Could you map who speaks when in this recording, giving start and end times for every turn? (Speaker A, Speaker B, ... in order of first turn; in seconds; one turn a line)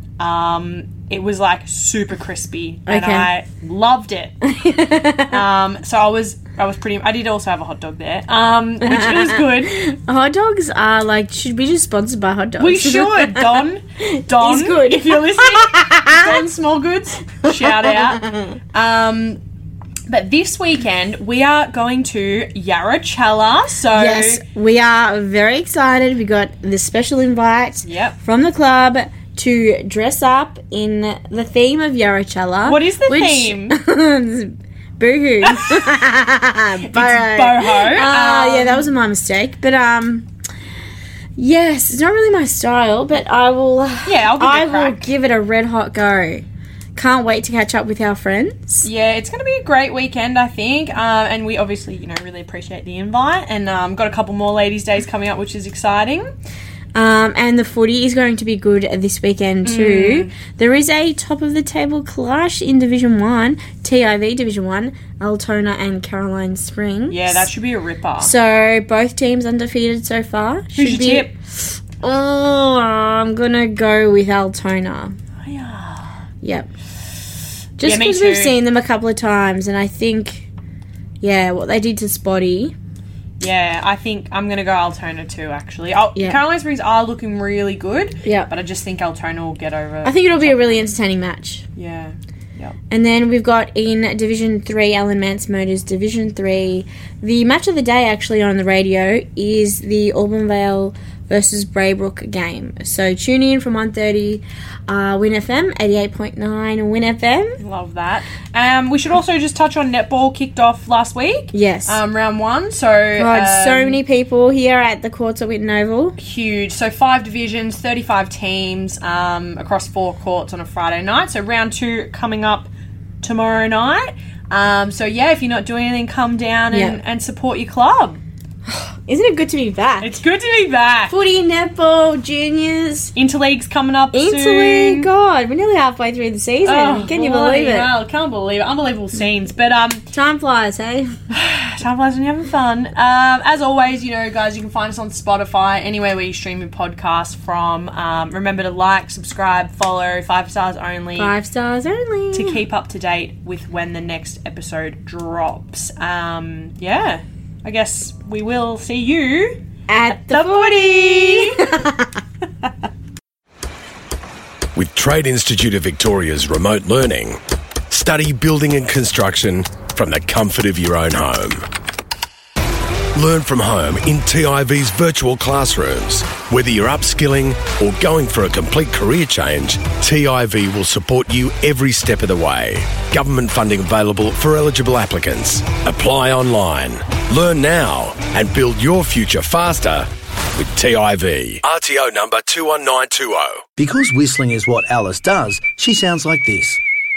Speaker A: 0.2-4.4
Speaker B: 2.9-3.3
Speaker B: 4.4-5.4
Speaker A: 5.3-9.8
Speaker B: 8.8-16.4
Speaker A: 12.6-19.4
Speaker B: 17.5-18.6
Speaker A: 20.1-24.4
Speaker B: 23.9-40.3
Speaker A: 27.9-28.2
Speaker A: 32.6-33.8
Speaker A: 36.9-38.9
Speaker B: 41.4-46.5
Speaker A: 44.0-45.0
Speaker B: 47.0-48.9
Speaker A: 48.8-56.3
Speaker B: 57.0-67.5
Speaker A: 59.6-60.3
Speaker A: 67.1-68.3
Speaker B: 68.2-75.2
Speaker A: 70.8-71.3
Speaker A: 75.4-76.1
Speaker B: 76.4-76.7
Speaker B: 77.8-80.5
Speaker A: 77.8-78.6
Speaker B: 81.2-82.7
Speaker A: 83.4-90.9
Speaker B: 88.2-88.5
Speaker B: 90.0-91.7
Speaker A: 91.8-92.8
Speaker B: 92.9-107.6
Speaker A: 107.6-114.0
Speaker B: 111.5-112.0
Speaker B: 113.2-116.2
Speaker A: 116.2-122.7
Speaker A: 123.2-128.2
Speaker B: 126.7-127.0
Speaker B: 128.7-130.2
Speaker A: 130.0-131.1
Speaker B: 131.1-133.1
Speaker A: 133.2-135.1
Speaker B: 134.1-138.0
Speaker A: 136.6-140.1
Speaker B: 140.1-141.2
Speaker A: 141.3-151.3
Speaker B: 151.2-152.6
Speaker A: 152.3-159.6
Speaker B: 159.9-162.1
Speaker A: 160.1-161.7
Speaker C: 164.8-171.7
Speaker C: 173.1-193.6
Speaker D: 193.8-196.8